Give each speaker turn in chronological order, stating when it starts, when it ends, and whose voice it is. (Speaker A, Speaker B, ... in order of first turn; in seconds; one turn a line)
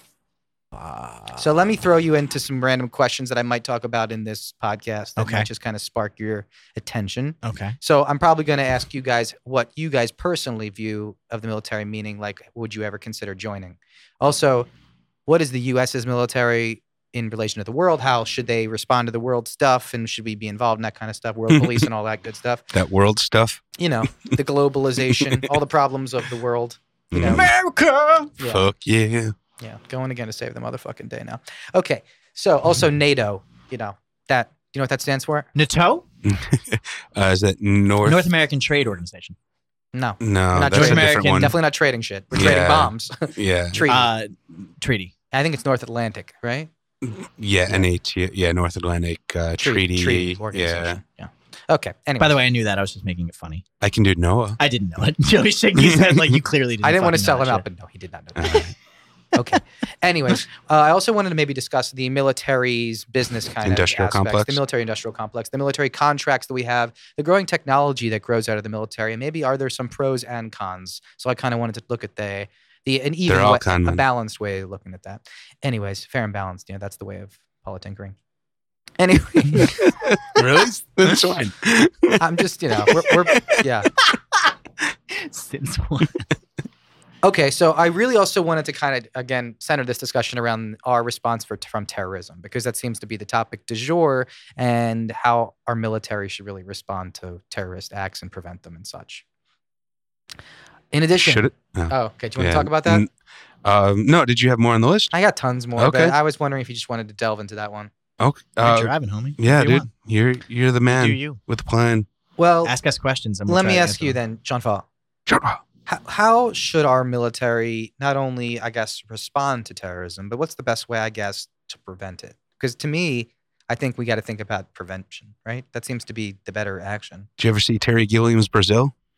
Speaker A: 0.7-1.4
Speaker B: 1.4-14.7
Speaker A: 5.2-5.5
Speaker A: 7.4-7.8
Speaker B: 15.3-22.6
Speaker C: 21.5-21.9
Speaker C: 22.7-23.6
Speaker B: 23.8-27.5
Speaker C: 25.1-25.5
Speaker C: 27.1-27.5
Speaker A: 27.2-28.3
Speaker B: 28.4-28.7
Speaker C: 28.4-29.3
Speaker B: 29.6-35.5
Speaker A: 35.5-36.0
Speaker C: 36.2-38.3
Speaker A: 38.0-39.4
Speaker B: 39.9-44.1
Speaker C: 40.2-41.5
Speaker A: 40.5-41.5
Speaker C: 42.3-43.8
Speaker A: 43.9-45.1
Speaker B: 45.3-46.7
Speaker C: 47.0-51.0
Speaker B: 49.6-52.4
Speaker A: 52.2-53.6
Speaker C: 53.8-54.6
Speaker A: 54.6-57.6
Speaker C: 55.7-56.4
Speaker B: 56.8-58.7
Speaker C: 58.3-58.7
Speaker B: 59.3-78.1
Speaker C: 63.6-64.6
Speaker C: 73.3-74.0
Speaker B: 79.0-79.9
Speaker C: 79.7-82.2
Speaker B: 82.2-83.9
Speaker C: 82.8-83.6
Speaker A: 85.1-86.3
Speaker B: 87.2-99.2
Speaker B: 100.9-103.0
Speaker C: 101.2-103.1
Speaker C: 103.6-105.1
Speaker B: 105.1-107.9
Speaker C: 105.8-106.2
Speaker C: 108.2-112.1
Speaker A: 108.6-109.9
Speaker A: 111.0-111.4
Speaker B: 112.4-112.7
Speaker A: 112.6-114.2
Speaker B: 113.5-114.8
Speaker C: 115.3-115.6
Speaker B: 115.9-127.3
Speaker C: 127.4-128.9